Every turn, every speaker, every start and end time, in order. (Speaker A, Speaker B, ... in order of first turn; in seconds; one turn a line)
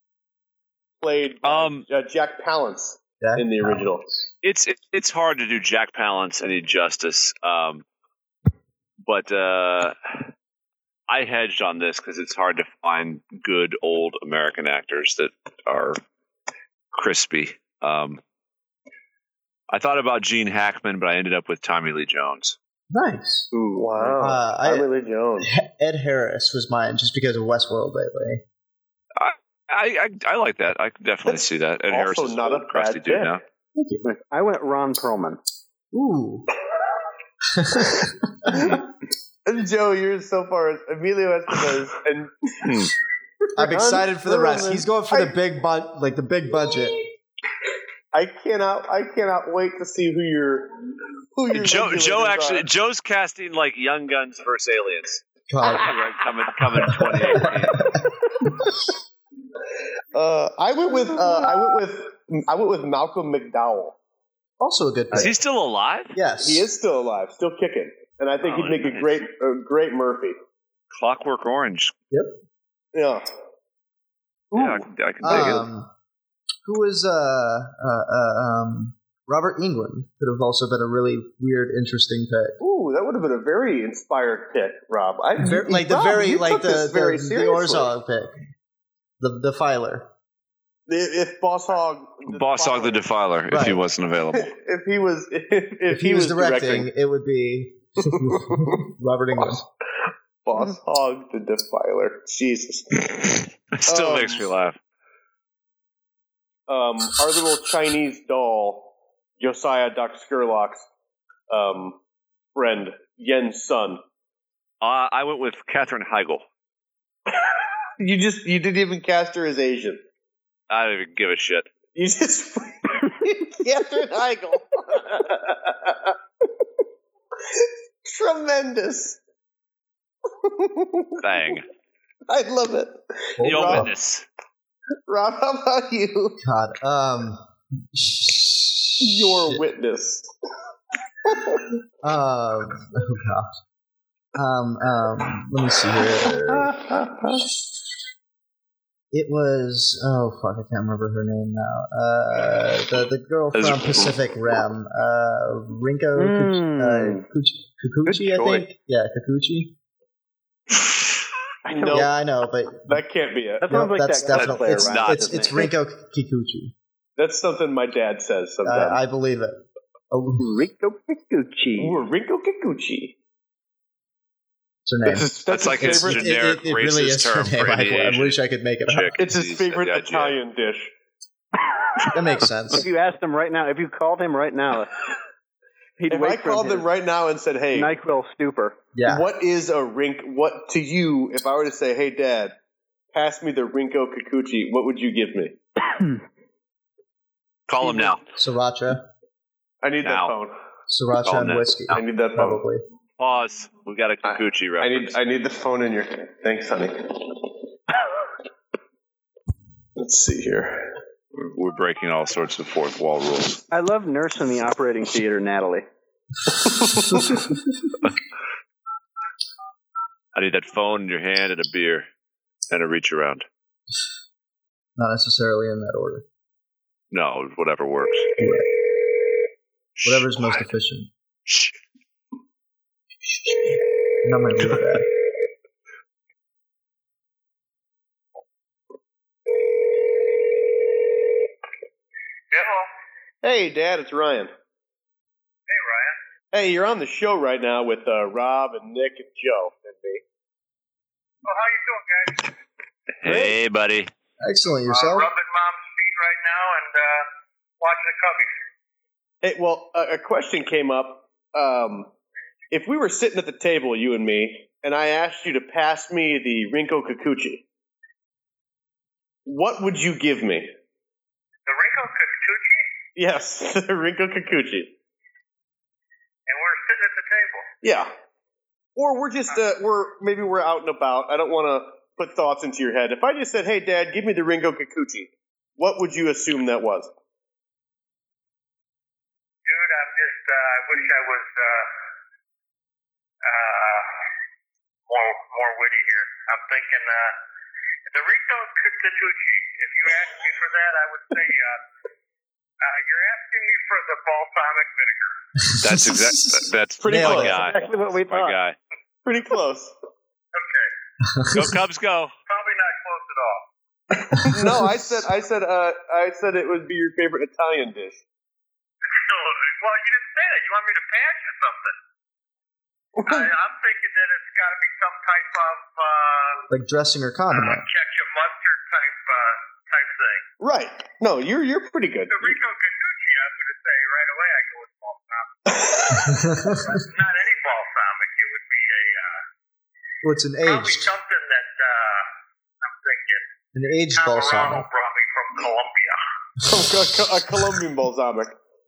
Speaker A: 1.0-4.0
Speaker B: 1.4-1.9
Speaker C: 3.2-4.3
Speaker B: 4.4-7.8
Speaker B: 9.1-9.9
Speaker B: 11.1-16.0
Speaker B: 16.9-18.2
Speaker B: 19.7-22.6
Speaker C: 22.9-24.9
Speaker A: 23.5-25.5
Speaker C: 25.4-28.4
Speaker B: 29.2-33.4
Speaker A: 31.2-33.3
Speaker C: 33.8-34.0
Speaker D: 34.0-35.4
Speaker C: 35.9-36.5
Speaker C: 37.5-38.7
Speaker A: 38.5-38.8
Speaker A: 39.4-42.9
Speaker B: 42.6-42.9
Speaker A: 43.5-45.3
Speaker C: 43.5-47.0
Speaker A: 48.1-50.7
Speaker A: 51.3-52.7
Speaker B: 51.5-55.2
Speaker C: 55.5-55.9
Speaker B: 55.8-57.9
Speaker C: 56.8-58.7
Speaker A: 60.1-64.0
Speaker C: 64.6-65.3
Speaker B: 65.1-66.1
Speaker C: 66.1-66.7
Speaker A: 66.4-70.3
Speaker B: 68.4-69.2
Speaker B: 70.9-71.9
Speaker A: 72.9-73.3
Speaker A: 74.5-75.6
Speaker B: 74.5-75.6
Speaker C: 75.2-75.9
Speaker C: 76.6-82.6
Speaker A: 82.6-87.9
Speaker C: 85.4-88.3
Speaker C: 89.2-90.1
Speaker A: 90.9-93.0
Speaker B: 92.3-94.5
Speaker C: 93.5-93.8
Speaker A: 94.3-96.9
Speaker C: 95.9-99.6
Speaker A: 98.0-98.8
Speaker A: 99.3-99.6
Speaker A: 100.4-104.4
Speaker B: 103.7-104.8
Speaker A: 106.7-110.8
Speaker A: 111.5-112.0
Speaker A: 112.5-114.0
Speaker B: 114.8-116.4
Speaker A: 118.0-120.0
Speaker B: 120.7-121.7
Speaker A: 121.9-126.1
Speaker A: 127.5-129.2
Speaker A: 130.4-131.2
Speaker B: 131.2-131.7
Speaker A: 132.3-133.9
Speaker C: 133.4-133.9
Speaker B: 133.4-134.2
Speaker A: 135.1-136.4
Speaker C: 136.4-139.6
Speaker A: 139.0-140.3
Speaker A: 141.2-141.6
Speaker C: 142.0-143.5
Speaker C: 144.3-146.8
Speaker A: 146.5-147.5
Speaker C: 149.1-159.7
Speaker B: 153.5-154.2
Speaker D: 156.2-157.2
Speaker B: 158.1-158.6
Speaker D: 161.7-162.0
Speaker A: 161.7-162.1
Speaker C: 161.9-163.0
Speaker A: 162.9-163.7
Speaker D: 163.6-165.7
Speaker C: 163.6-166.7
Speaker B: 164.3-165.4
Speaker A: 167.2-169.0
Speaker C: 168.6-170.6
Speaker D: 170.4-172.0
Speaker A: 171.8-173.1
Speaker C: 174.8-179.2
Speaker A: 175.0-176.3
Speaker B: 175.5-180.4
Speaker A: 179.1-180.9
Speaker C: 182.1-182.8
Speaker D: 182.7-184.9
Speaker D: 186.0-186.8
Speaker A: 186.1-187.9
Speaker D: 187.7-188.8
Speaker C: 188.9-189.2
Speaker A: 189.1-192.5
Speaker A: 193.1-195.6
Speaker B: 197.7-198.2
Speaker C: 198.3-199.1
Speaker A: 199.8-200.5
Speaker B: 200.0-200.3
Speaker C: 200.9-202.8
Speaker B: 201.2-202.0
Speaker A: 201.9-202.6
Speaker B: 203.2-205.2
Speaker A: 204.2-207.5
Speaker A: 210.0-211.0
Speaker B: 211.3-213.6
Speaker D: 213.7-215.8
Speaker A: 216.5-217.4
Speaker B: 220.3-222.1
Speaker B: 222.7-223.4
Speaker C: 225.0-226.2
Speaker B: 227.1-228.3
Speaker C: 228.4-228.7
Speaker B: 229.9-230.6
Speaker C: 230.0-231.1
Speaker B: 231.5-231.7
Speaker C: 233.3-233.7
Speaker C: 234.2-235.1
Speaker E: 242.5-242.9
Speaker A: 243.4-244.5
Speaker E: 245.7-246.2
Speaker A: 246.5-250.2
Speaker E: 251.4-252.5
Speaker B: 253.2-254.1
Speaker C: 254.4-255.3
Speaker E: 254.8-257.3
Speaker E: 257.8-258.5
Speaker A: 259.4-262.1
Speaker A: 262.7-267.6
Speaker A: 269.4-270.7
Speaker E: 271.6-272.9
Speaker A: 273.1-274.9
Speaker E: 276.5-277.7
Speaker A: 277.8-278.1
Speaker A: 278.9-287.1
Speaker E: 289.6-291.9
Speaker E: 293.4-294.2
Speaker E: 295.1-297.4
Speaker E: 298.1-301.8
Speaker E: 302.8-305.4
Speaker C: 305.7-307.6
Speaker B: 305.8-308.8
Speaker A: 307.0-307.6
Speaker D: 307.5-308.6
Speaker A: 309.2-309.9
Speaker E: 310.5-310.9
Speaker C: 311.3-311.8
Speaker B: 311.5-312.3
Speaker E: 312.5-313.7
Speaker A: 314.3-318.2
Speaker C: 314.3-315.0
Speaker E: 319.0-322.0
Speaker A: 323.2-323.5
Speaker E: 323.2-326.6
Speaker C: 326.7-327.8
Speaker E: 327.5-330.4
Speaker A: 330.6-332.6
Speaker E: 332.3-339.4
Speaker A: 335.7-336.3
Speaker C: 336.1-337.0
Speaker C: 340.2-341.1
Speaker E: 340.6-342.3
Speaker E: 342.8-343.5
Speaker C: 343.7-344.9
Speaker E: 344.1-346.2
Speaker A: 346.6-348.6